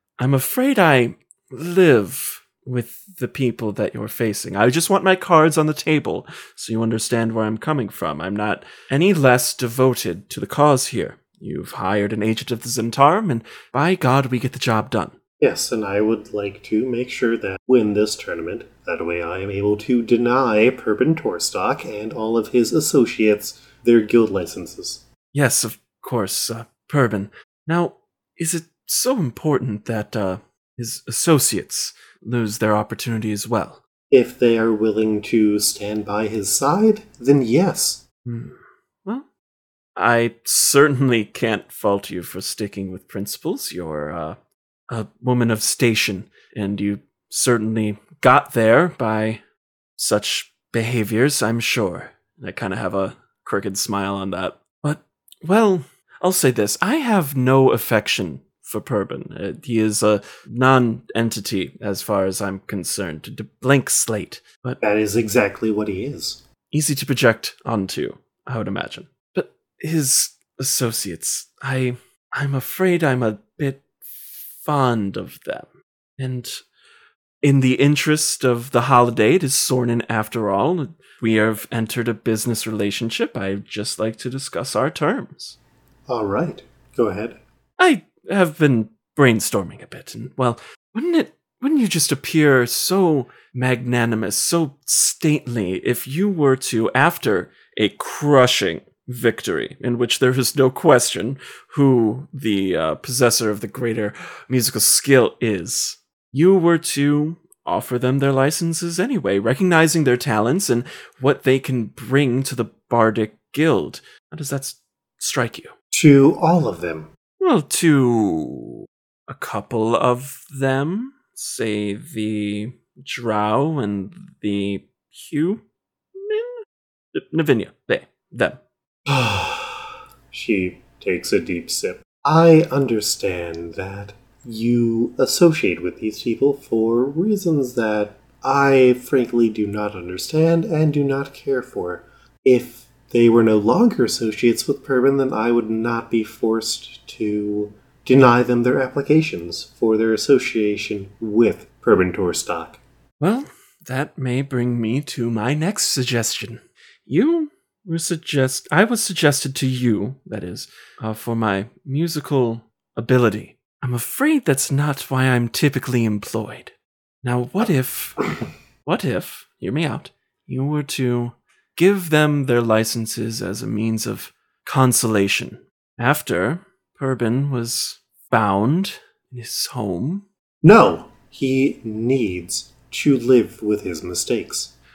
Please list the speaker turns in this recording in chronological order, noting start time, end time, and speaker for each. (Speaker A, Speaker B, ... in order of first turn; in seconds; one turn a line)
Speaker A: 0.2-15.2
Speaker B: 15.4-25.0
Speaker A: 25.3-33.8
Speaker B: 34.1-38.0
Speaker A: 38.2-39.2
Speaker A: 40.0-44.4
Speaker A: 44.9-49.4
Speaker A: 50.0-64.8
Speaker B: 64.8-66.4
Speaker A: 66.7-73.9
Speaker A: 74.5-76.6
Speaker A: 77.4-85.5
Speaker B: 86.1-87.4
Speaker A: 87.8-115.7
Speaker B: 115.9-117.1
Speaker A: 117.4-125.6
Speaker A: 126.1-126.6
Speaker A: 127.1-128.6
Speaker B: 129.1-152.8
Speaker A: 153.2-168.3
Speaker A: 168.8-180.2
Speaker B: 180.6-184.7